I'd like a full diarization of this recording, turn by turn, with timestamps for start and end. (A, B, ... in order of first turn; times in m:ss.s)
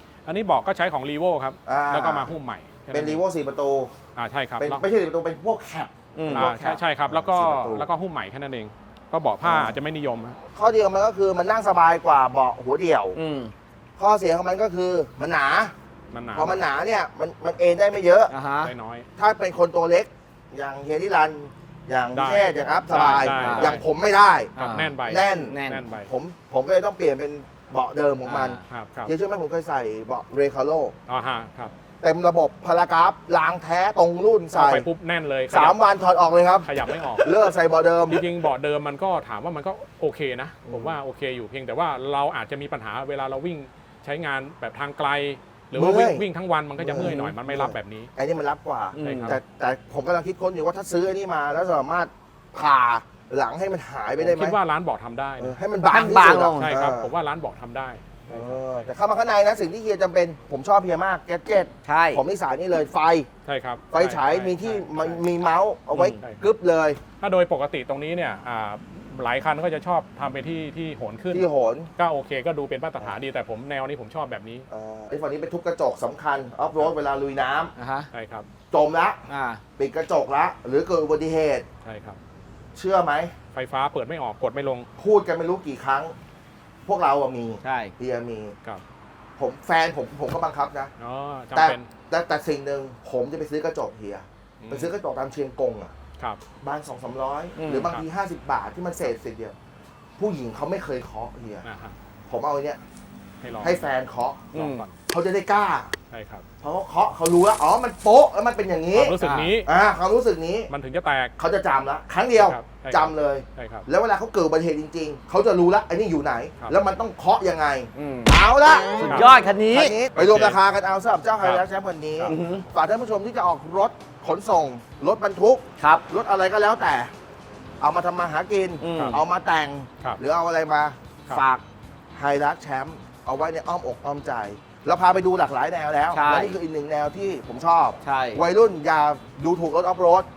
0:00.3-0:03.2 A
0:01.7-0:02.3 B
0:02.9-0:03.9 B
0:04.2-0:04.8 A
0:04.6-0:07.9 B
0:06.2-0:06.5 C
0:06.3-0:10.4 A
0:09.4-0:09.7 B
0:10.6-0:13.2 B
0:13.2-0:13.5 C
0:14.0-0:15.7 B
0:16.1-0:16.6 A
0:16.3-0:18.3 B
0:18.3-0:18.7 C
0:18.6-0:19.1 A
0:19.2-0:24.5 B
0:22.1-0:23.8 A
0:23.4-0:23.8 C
0:24.6-0:25.8 C
0:24.6-0:26.1 A
0:25.1-0:31.0 B
0:28.2-0:28.6 C
0:28.7-0:29.1 A
0:31.1-0:31.7 A
0:32.0-0:34.9 B
0:34.5-0:35.8 A
0:35.5-0:38.3 B
0:36.6-0:37.3 A
0:38.1-0:48.1 A
0:40.7-0:41.0 B
0:45.7-0:46.2 B
0:46.8-0:54.6 B
0:46.9-0:47.4 C
0:49.0-0:49.4 C
0:49.0-0:49.4 A
0:54.2-0:55.6 A
0:55.4-0:57.1 B
0:55.9-0:56.7 C
0:56.6-0:58.7 A
0:58.3-1:03.3 B
1:01.8-1:02.2 C
1:03.5-1:05.3 A
1:03.9-1:07.0 B
1:05.9-1:06.4 A
1:07.2-1:14.7 A
1:11.3-1:11.9 B
1:14.7-1:17.7 B
1:17.8-1:18.1 C
1:18.1-1:18.5 A
1:18.7-1:19.2 B
1:19.3-1:19.6 C
1:19.8-1:21.7 B
1:21.8-1:22.2 A
1:22.8-1:23.3 B
1:23.5-1:24.9 A
1:25.0-1:26.1 B
1:26.9-1:28.6 B
1:27.6-1:27.9 C
1:29.4-1:30.9 B
1:31.0-1:31.9 A
1:31.5-1:35.9 B
1:34.6-1:34.9 A
1:36.6-1:39.6 B
1:37.6-1:37.9 C
1:40.2-1:41.6 B
1:41.6-1:42.0 A
1:42.3-1:42.8 B
1:43.4-1:43.8 A
1:43.6-1:44.5 B
1:44.5-1:45.0 A
1:44.5-1:44.8 C
1:45.1-1:45.9 B
1:46.1-1:46.4 A
1:46.6-1:50.7 B
1:49.0-1:49.7 A
1:49.2-1:49.5 C
1:50.7-1:51.4 A
1:51.4-2:07.1 B
1:52.4-1:53.9 A
1:58.0-1:58.3 C
1:59.0-1:59.4 A
1:59.1-2:00.0 C
2:00.2-2:00.6 A
2:02.3-2:02.6 C
2:05.8-2:06.0 C
2:07.8-2:11.6 B
2:08.8-2:09.2 C
2:08.9-2:09.2 A
2:12.1-2:20.3 B
2:16.1-2:16.6 C
2:18.0-2:18.4 C